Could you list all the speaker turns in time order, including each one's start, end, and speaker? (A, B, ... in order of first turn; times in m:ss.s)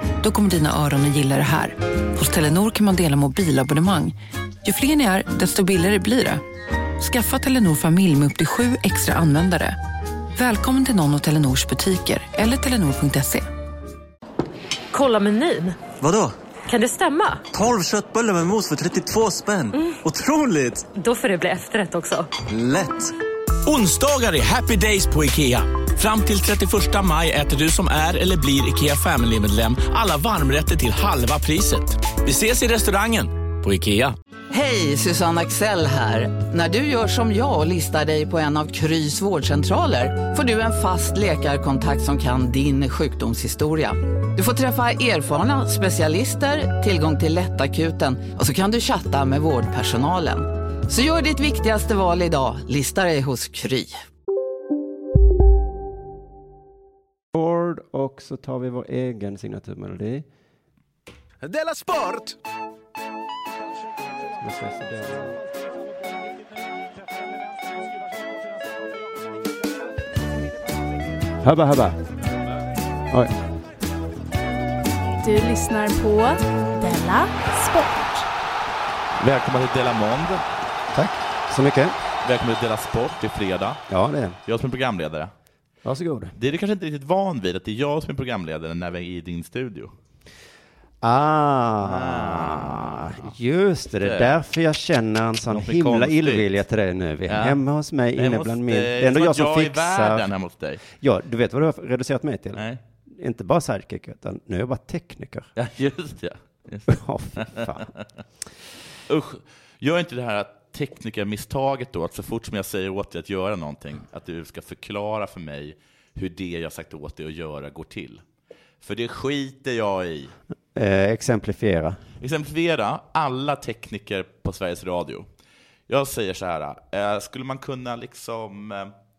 0:00.2-0:06.4 A
0:07.0-0:09.8 A
0:10.4-0:13.5 A
0:14.9-0:15.8 B
0:16.0-0:16.4 C
0:16.7-0:17.4 B
0:17.5-0:20.9 C
0:20.9-0:22.3 B
0:22.5-0:23.1 C
0:23.6-0:34.2 D
0:34.5-0:54.0 E
0:57.3-1:00.2 F
1:01.5-1:02.3 D
1:04.4-1:05.3 F
1:11.4-1:12.0 F
1:13.1-1:13.4 F
1:15.2-1:18.2 G
1:19.2-1:20.4 H
1:20.9-1:22.0 F
1:22.2-1:23.8 H
1:23.9-1:24.4 F
1:24.5-1:25.3 H
1:25.8-1:26.3 F
1:26.4-1:29.9 H
1:31.0-1:40.3 F
1:31.8-1:33.3 H
1:34.0-1:34.4 H
1:35.5-1:36.5 H
1:37.3-1:37.6 H
1:38.2-1:40.8 H
1:41.0-1:45.5 F
1:42.6-1:42.8 H
1:45.6-1:47.9 H
1:46.9-1:47.9 F
1:49.1-1:58.2 H
1:58.8-2:00.3 H
2:00.8-2:02.0 F
2:02.2-2:05.3 H
2:05.9-2:08.9 H